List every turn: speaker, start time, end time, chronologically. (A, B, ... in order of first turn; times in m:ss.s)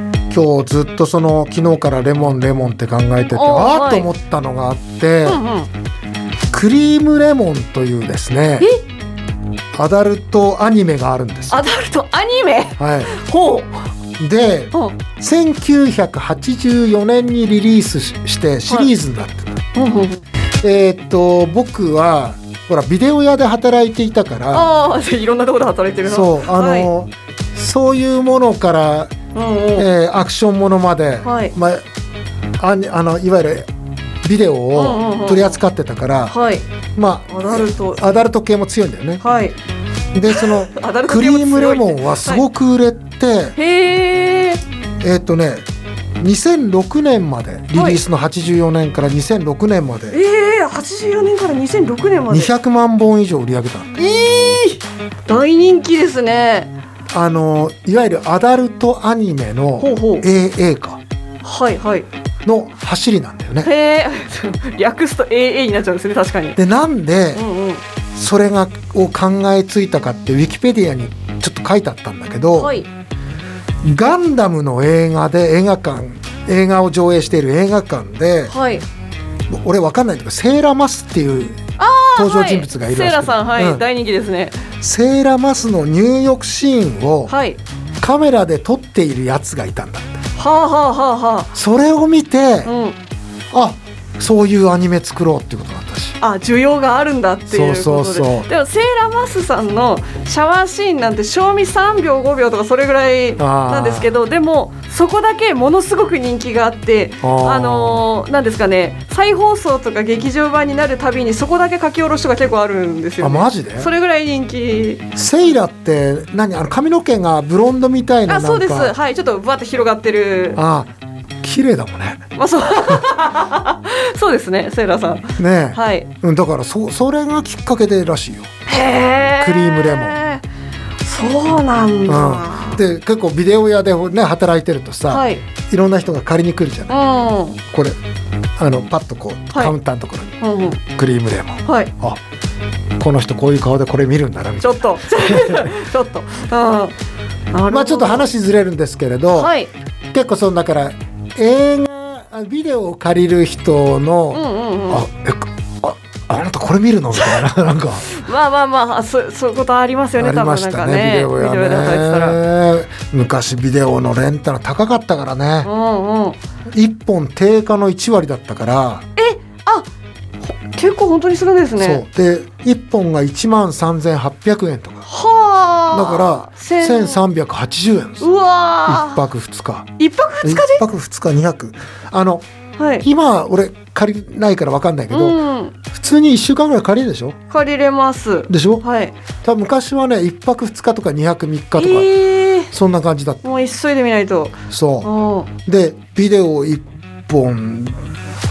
0:00.3-0:05.4 A
0:03.3-0:04.1 B
0:05.2-0:05.7 B
0:06.5-0:08.7 A
0:09.8-0:11.6 A
0:11.5-0:13.8 B
0:12.8-0:13.2 A
0:14.2-0:19.6 A
0:14.7-0:15.0 B
0:19.8-0:20.2 B
0:20.6-0:24.7 A
0:24.5-0:26.9 B
0:26.0-0:29.2 A
0:29.4-0:29.9 B
0:29.8-0:31.8 A
0:31.2-0:31.5 B
0:32.6-0:33.7 A
0:34.2-0:36.4 A
0:34.7-0:35.6 B
0:36.3-0:36.6 B
0:37.0-0:39.2 A
0:37.3-0:38.1 B
0:39.2-0:39.6 B
0:40.1-0:43.6 A
0:40.3-0:42.4 B
0:43.6-0:44.6 B
0:45.0-0:45.6 A
0:46.2-0:50.2 A
0:47.7-0:48.0 B
0:50.1-0:52.5 B
0:52.3-0:54.0 A
0:54.0-0:56.7 B
0:57.1-1:01.0 A
0:59.8-1:00.3 B
1:01.4-1:02.1 B
1:02.4-1:03.7 A
1:03.6-1:06.6 B
1:06.6-1:07.4 A
1:07.4-1:07.8 B
1:08.2-1:12.8 A
1:12.5-1:12.9 B
1:13.8-1:18.5 A
1:18.5-1:18.8 B
1:19.5-1:21.6 A
1:21.8-1:24.6 B
1:22.2-1:23.8 A
1:24.8-1:27.4 A
1:27.3-1:27.6 B
1:28.0-1:30.2 A
1:30.4-1:31.5 B
1:31.6-1:32.7 A
1:32.6-1:33.0 B
1:33.5-1:36.2 A
1:36.2-1:55.0 B
1:37.5-1:38.5 A
1:43.4-1:44.1 A
1:47.2-1:48.0 A
1:53.2-1:53.9 A
1:55.2-1:59.0 A
1:58.3-2:00.6 B
2:00.6-2:02.2 A
2:02.4-2:06.1 B
2:05.4-2:08.5 A
2:08.7-2:10.4 B
2:09.4-2:10.2 A
2:11.0-2:12.8 B
2:12.1-2:17.0 A
2:15.1-2:15.4 B
2:16.9-2:17.6 B
2:17.6-2:18.0 A
2:18.6-2:22.2 A
2:20.4-2:20.8 B
2:21.7-2:21.9 B
2:23.0-2:25.7 A
2:24.6-2:26.9 B
2:27.5-2:28.3 B
2:27.7-2:29.5 A
2:29.3-2:29.7 B
2:30.1-2:38.1 A
2:34.3-2:35.0 B
2:38.1-2:42.4 B
2:40.2-2:45.7 A
2:45.6-2:46.4 B
2:46.7-2:49.1 A
2:49.2-2:49.9 B
2:50.4-2:52.0 B
2:51.8-2:55.1 A
2:55.1-2:57.2 B
2:55.9-2:58.3 A
2:58.2-2:59.2 B
2:58.9-2:59.9 A
3:00.0-3:00.8 B
3:00.4-3:02.4 A
3:02.8-3:03.1 B
3:03.0-3:07.4 A
3:05.1-3:05.8 B
3:07.5-3:09.1 B
3:08.5-3:08.8 A
3:09.4-3:12.1 A
3:11.8-3:12.7 B
3:12.7-3:13.4 A
3:13.4-3:15.5 B
3:14.7-3:15.1 A
3:15.6-3:18.0 A